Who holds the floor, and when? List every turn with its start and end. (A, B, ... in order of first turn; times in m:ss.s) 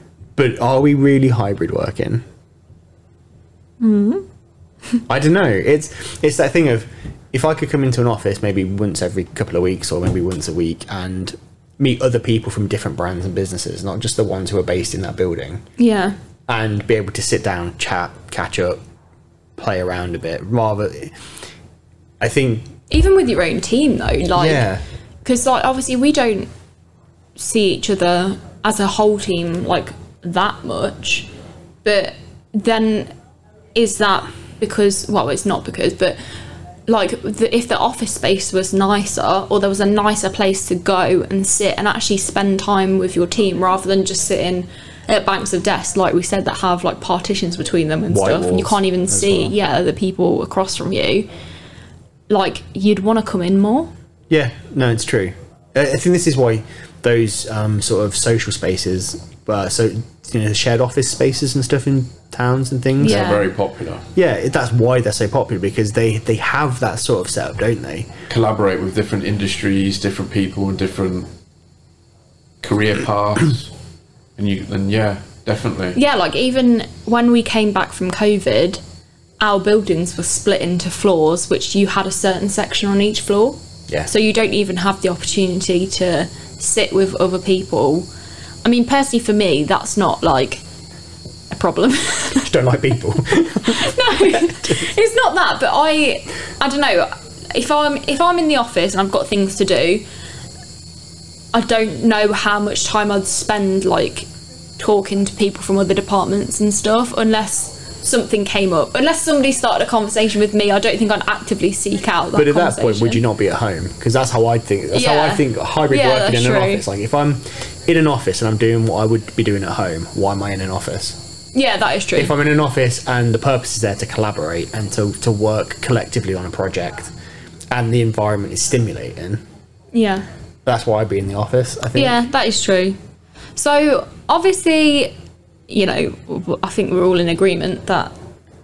0:00.4-0:02.2 A
0:03.8-0:04.2 B
0:05.1-0:15.6 A
0:15.8-0:16.2 B
0:16.5-0:18.8 A
0:19.6-0:21.2 A
0:22.2-0:22.7 A
0:22.9-0:24.7 B
0:24.4-0:24.8 A
0:25.2-0:26.5 B
0:27.4-0:31.3 B
0:31.8-0:33.1 B
0:33.8-0:36.2 B
0:36.9-0:51.3 B
0:48.1-0:49.5 A
0:52.3-0:53.9 B
0:54.3-1:03.4 A
1:03.0-1:04.1 C
1:03.0-1:03.5 B
1:04.2-1:08.1 A
1:08.3-1:11.3 C
1:12.6-1:13.7 C
1:14.4-1:16.0 C
1:16.0-1:18.8 B
1:19.4-1:28.1 B
1:28.6-1:30.6 B
1:31.5-1:32.5 B
1:32.4-1:34.7 A
1:33.6-1:40.0 B
1:41.5-1:44.3 B
1:44.8-1:53.2 B
1:52.4-2:01.3 A
1:54.9-1:56.8 B
2:01.5-2:02.3 B
2:02.2-2:07.1 A
2:07.7-2:09.4 A
2:09.9-2:10.3 B
2:10.6-2:12.2 A
2:12.0-2:13.0 B
2:13.6-2:15.1 B
2:15.7-2:18.1 B